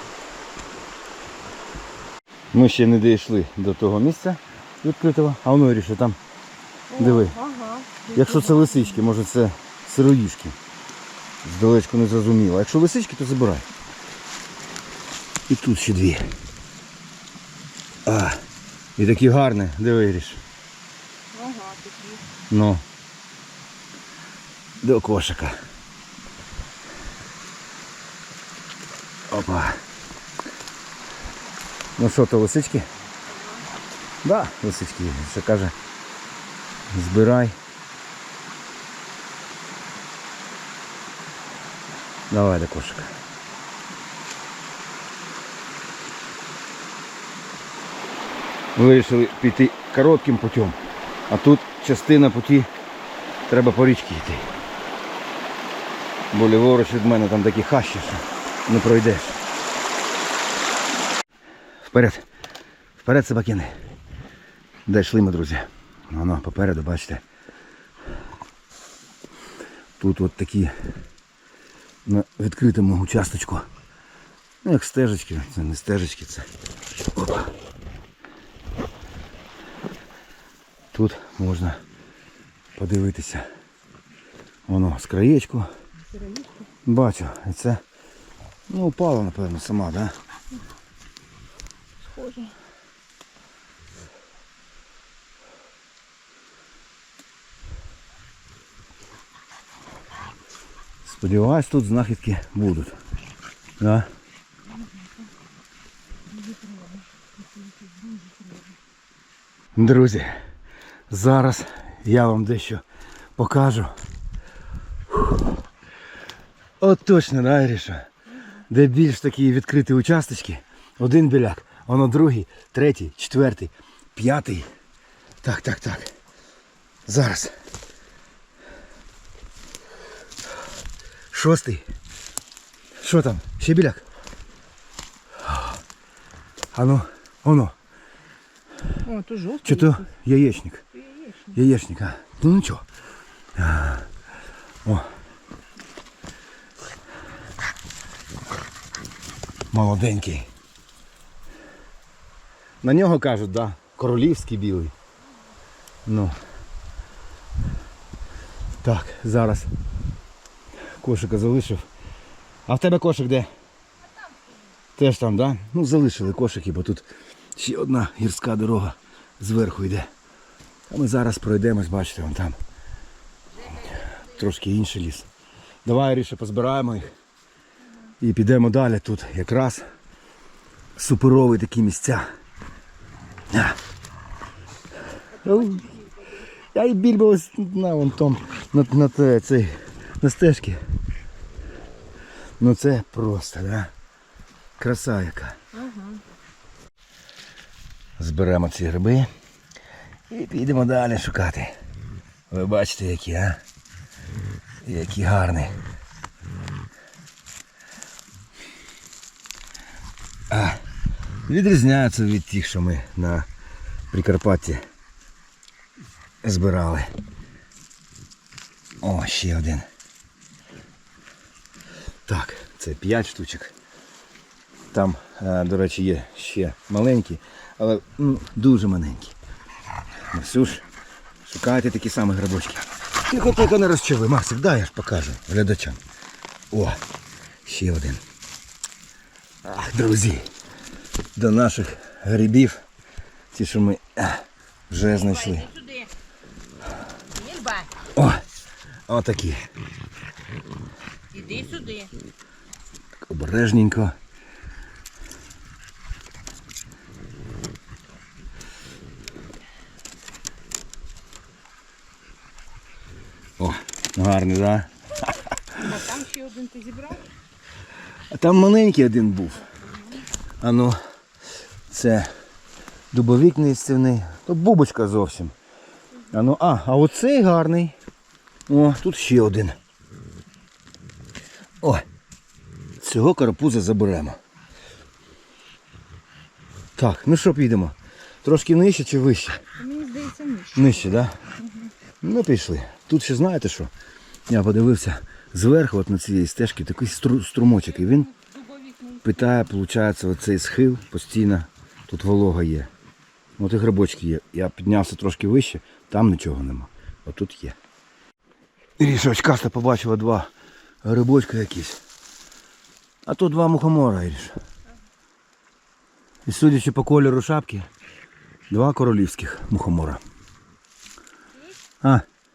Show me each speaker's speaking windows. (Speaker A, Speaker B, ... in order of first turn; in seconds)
Speaker A: 2.5-6.2, 7.0-7.3, 8.1-10.6, 11.4-13.7, 15.5-16.3, 18.1-18.4, 19.0-20.4, 22.5-22.8, 24.8-25.6, 29.3-29.8, 32.0-32.9, 34.2-35.7, 36.9-37.6, 42.3-43.1, 48.8-52.7, 53.5-54.5, 56.3-59.4, 61.9-62.2, 63.0-63.7, 64.9-67.2, 70.0-70.7, 72.1-73.7, 74.6-76.5, 77.1-77.5, 80.9-81.8, 82.8-83.5, 84.7-85.7, 86.9-87.8, 88.7-90.2, 101.0-103.0, 103.8-104.1, 109.8-110.4, 111.1-112.8, 113.4-113.9, 115.1-115.4, 116.8-118.1, 118.7-124.7, 125.4-126.1, 127.1-127.5, 131.3-131.8, 133.0-134.0, 135.4-135.8, 136.7-137.8, 139.6-140.8, 141.5-142.8, 143.6-144.1, 149.7-150.5, 152.8-154.9, 156.1-156.3, 158.8-159.7, 161.0-161.8, 162.7-163.5, 165.0-170.1, 170.9-172.6, 173.7-175.3, 175.8-177.1, 178.2-179.8, 181.0-182.3, 183.5-183.8, 185.4-185.9, 186.7-190.8, 192.6-193.9, 194.8-195.6, 198.2-199.3, 200.3-201.8, 202.5-203.6, 204.8-205.8, 210.5-210.8, 211.5-213.5, 214.1-214.8, 216.4-217.1, 219.0-219.9, 222.3-223.7, 224.9-229.4, 230.3-230.8, 231.4-236.0, 236.7-237.0, 237.7-238.2, 239.6-240.5, 241.4-242.8, 243.5-245.7, 248.2-248.4, 249.1-249.6, 253.3-254.1, 263.6-264.9, 268.3-269.6, 270.6-271.0, 271.9-272.3, 273.1-275.5, 276.3-277.9, 278.7-279.8, 283.0-284.4, 287.0-289.6, 290.8-291.4, 292.2-293.9, 294.5-298.3, 299.2-302.9, 303.6-307.8, 309.0-310.5, 311.0-312.0, 313.2-314.5, 316.5-317.9, 318.7-320.2
Speaker B: 6.9-9.1, 21.3-22.3, 33.3-33.7, 86.0-86.7, 92.0-92.5, 106.3-108.7, 139.0-140.1, 140.9-141.6, 164.0-164.6, 173.6-174.1, 185.4-186.4, 195.7-196.2, 245.1-246.1, 247.3-247.9, 251.3-252.1, 265.7-267.3, 269.7-270.3, 289.8-291.9, 297.8-299.6, 321.5-321.8